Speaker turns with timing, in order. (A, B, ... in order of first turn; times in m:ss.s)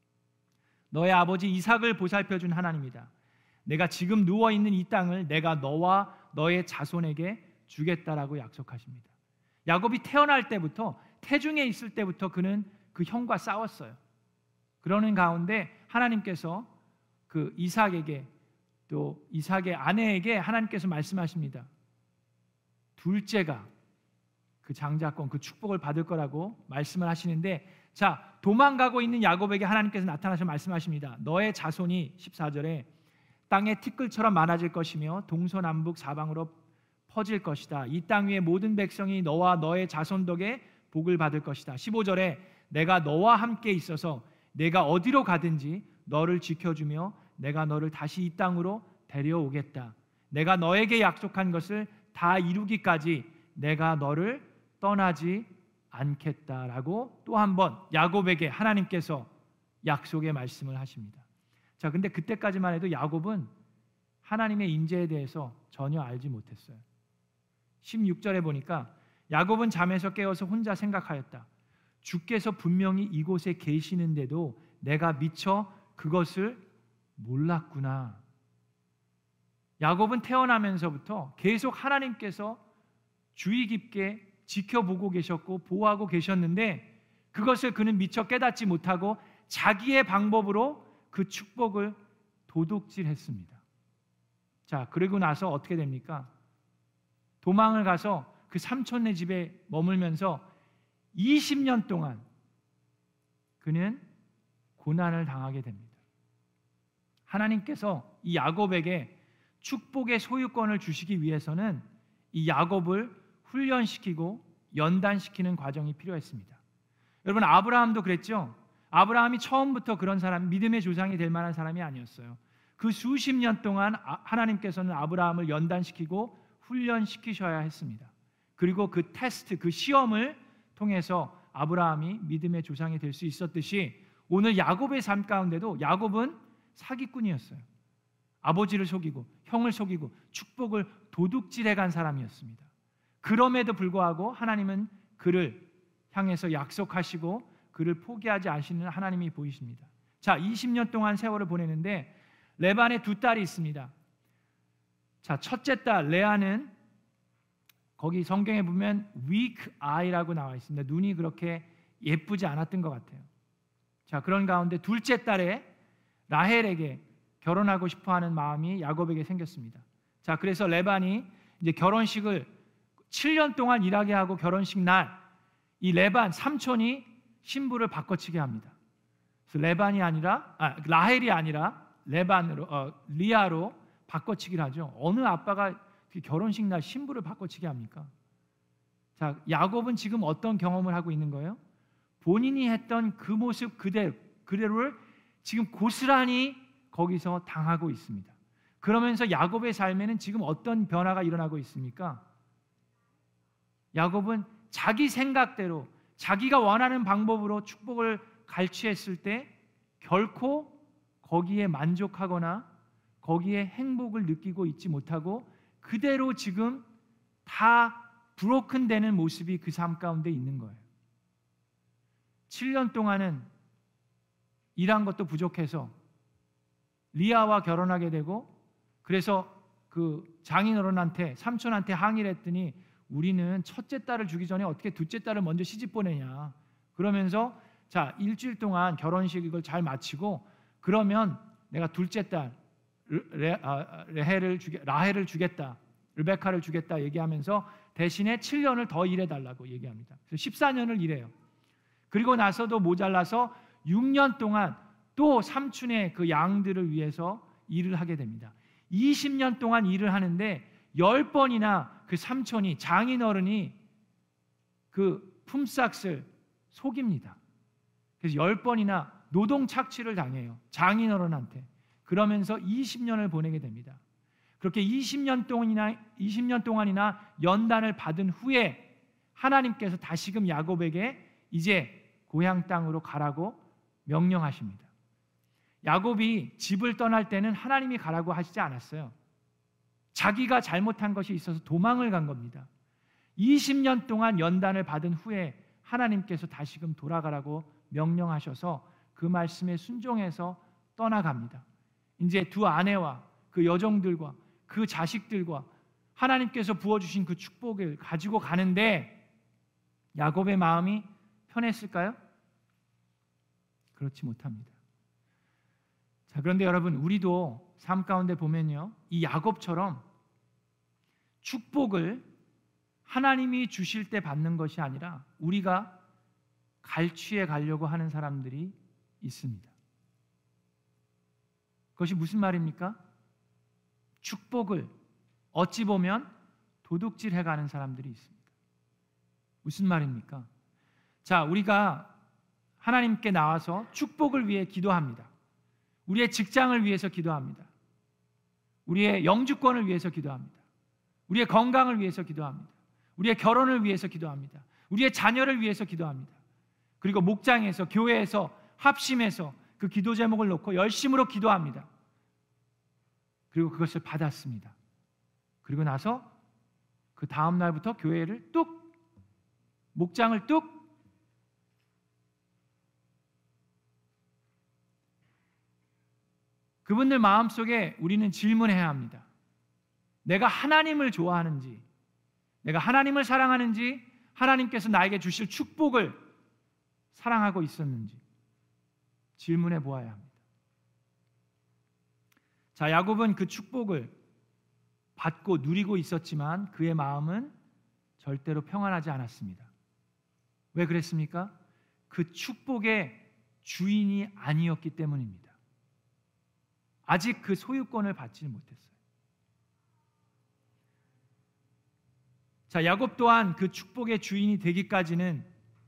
0:00.9-0:03.1 A
0:03.6-0:09.1 A
0:09.6-0:14.0 A
0:14.8-0:16.7 A
0:17.3-0:18.3 A
0:18.9-0:21.7 A
0:23.0-0:23.7 A
0:24.6-0:32.9 A
0:33.5-0:36.6 A
0:37.1-0:59.3 A
0:59.8-1:01.2 A
1:01.8-1:03.5 A
1:04.2-1:06.8 A
1:07.8-1:11.5 A
1:12.0-1:16.6 A
1:17.2-1:18.2 A
1:19.8-1:22.6 A
1:23.3-1:32.0 A
1:32.5-1:33.6 A
1:34.7-1:36.3 A
1:37.4-1:40.4 A
1:41.1-1:42.2 A
1:43.6-1:44.0 A
1:44.8-1:45.9 A
1:47.3-1:56.6 A
1:57.2-2:17.6 A
2:18.4-2:22.7 A
2:23.2-2:33.9 A
2:35.2-2:36.7 A
2:38.0-2:43.3 A
2:44.1-2:45.7 A
2:46.3-2:52.5 A
2:53.1-2:55.2 A
2:55.8-2:58.8 A
2:59.5-3:08.1 A
3:09.2-3:11.6 A
3:12.2-3:22.2 A
3:23.9-3:32.7 A
3:33.2-3:36.8 A
3:37.4-3:40.8 A
3:42.5-3:43.5 A
3:44.8-3:45.9 A
3:47.1-3:48.5 A
3:49.0-4:02.6 A
4:03.1-4:11.3 A
4:12.1-4:23.8 A
4:24.9-4:27.4 A
4:28.2-4:34.0 A
4:34.6-4:44.9 A
4:45.8-4:49.1 A
4:50.1-4:52.7 A
4:53.4-5:01.6 A
5:02.2-5:09.2 A
5:10.1-5:12.2 A
5:13.9-5:14.7 A
5:16.3-5:20.0 A
5:21.4-5:22.2 A
5:23.0-5:26.0 A
5:26.8-5:29.7 A
5:32.0-5:33.0 A
5:34.2-5:34.9 A
5:35.5-5:36.3 A
5:36.8-5:38.4 A
5:39.6-5:40.5 A
5:41.2-5:42.1 A
5:42.8-5:45.3 A
5:46.1-5:47.7 A
5:48.8-5:50.6 A
5:51.3-5:56.4 A
5:57.0-6:01.9 A
6:03.5-6:04.8 A
6:05.6-6:06.3 A
6:07.2-6:08.9 A
6:09.9-6:10.9 A
6:16.8-6:19.3 A
6:20.2-6:21.8 A
6:22.6-6:26.2 A
6:27.1-6:28.2 A
6:29.4-6:30.4 A
6:32.7-6:34.2 A
6:35.2-6:37.5 A
6:38.2-6:39.7 A
6:40.7-6:41.5 A
6:42.1-6:45.6 A
6:47.0-6:48.9 A
6:52.7-6:55.5 A